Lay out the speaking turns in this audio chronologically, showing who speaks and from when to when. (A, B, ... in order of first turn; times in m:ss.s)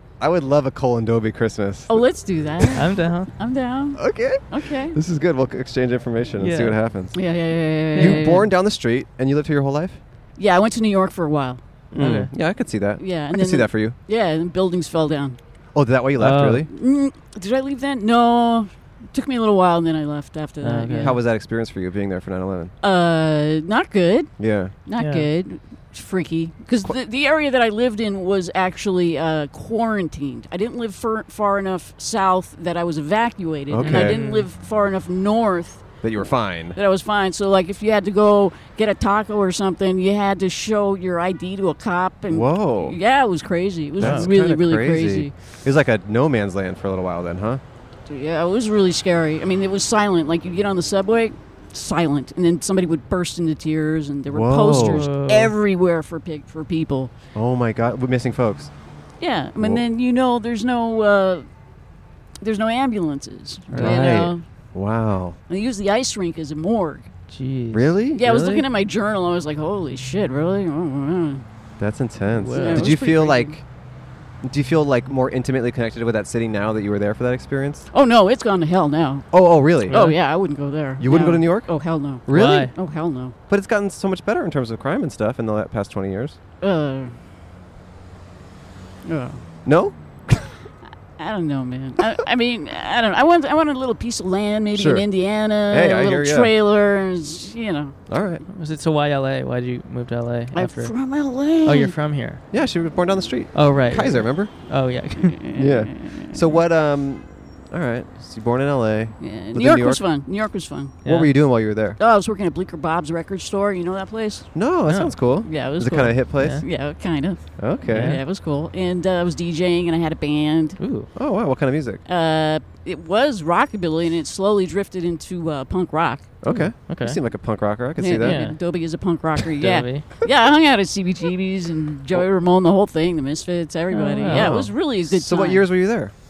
0:00.2-0:02.0 A
0:01.9-0:05.0 B
0:02.8-0:03.3 C
0:04.0-0:07.2 A
0:06.4-0:06.8 C
0:07.1-0:08.5 B
0:07.9-0:10.0 A
0:07.9-0:08.3 C
0:10.4-0:11.6 B
0:11.9-0:14.0 A
0:12.0-0:12.3 C
0:13.0-0:15.4 B
0:15.8-0:16.7 A
0:16.2-0:16.6 C
0:16.7-0:21.2 B
0:20.6-0:21.2 C
0:21.0-0:22.7 A
0:22.8-0:24.3 B
0:24.4-0:24.8 A
0:24.8-0:35.8 B
0:25.0-0:25.3 C
0:33.7-0:34.2 A
0:33.8-0:34.5 C
0:36.0-0:36.8 A
0:36.8-0:45.3 B
0:42.3-0:43.0 A
0:44.0-0:47.6 A
0:44.0-0:44.3 C
0:48.1-0:57.1 B
0:54.3-0:55.1 A
0:54.7-0:55.5 C
0:57.4-0:58.7 A
0:59.2-1:01.5 B
1:02.4-1:04.4 B
1:03.7-1:04.3 C
1:03.7-1:05.4 A
1:05.5-1:07.1 B
1:07.3-1:08.6 C
1:07.7-1:08.2 A
1:08.2-1:11.4 B
1:11.8-1:13.6 A
1:12.4-1:13.0 C
1:12.5-1:13.6 B
1:14.4-1:17.9 A
1:17.9-1:19.3 B
1:19.3-1:20.1 A
1:19.9-1:23.4 B
1:19.9-1:20.2 C
1:21.0-1:21.7 A
1:22.2-1:22.7 A
1:22.3-1:22.7 C
1:23.5-1:26.4 A
1:26.6-1:27.1 B
1:29.0-1:29.4 B
1:29.7-1:30.5 A
1:31.2-1:38.0 B
1:34.7-1:35.1 A
1:35.7-1:36.5 A
1:38.1-1:38.4 A
1:38.5-1:41.0 C
1:40.5-1:42.0 B
1:41.6-1:42.4 C
1:42.5-1:44.5 A
1:43.5-1:45.4 C
1:45.2-1:46.6 B
1:45.6-1:50.0 A
1:49.2-1:51.0 B
1:51.0-1:51.3 C
1:51.0-1:52.0 A
1:52.0-1:54.5 B
1:54.6-1:56.6 A
1:54.9-1:55.1 C
1:55.4-2:00.8 B
1:56.4-1:56.6 C
1:57.6-1:58.2 A
1:57.9-1:58.2 C
2:00.8-2:01.1 C
2:01.2-2:02.0 A
2:02.1-2:06.3 B
2:06.4-2:08.4 A
2:06.5-2:07.2 C
2:08.0-2:15.7 B
2:08.2-2:08.6 C
2:09.6-2:10.1 C
2:13.9-2:14.6 C
2:14.3-2:16.1 A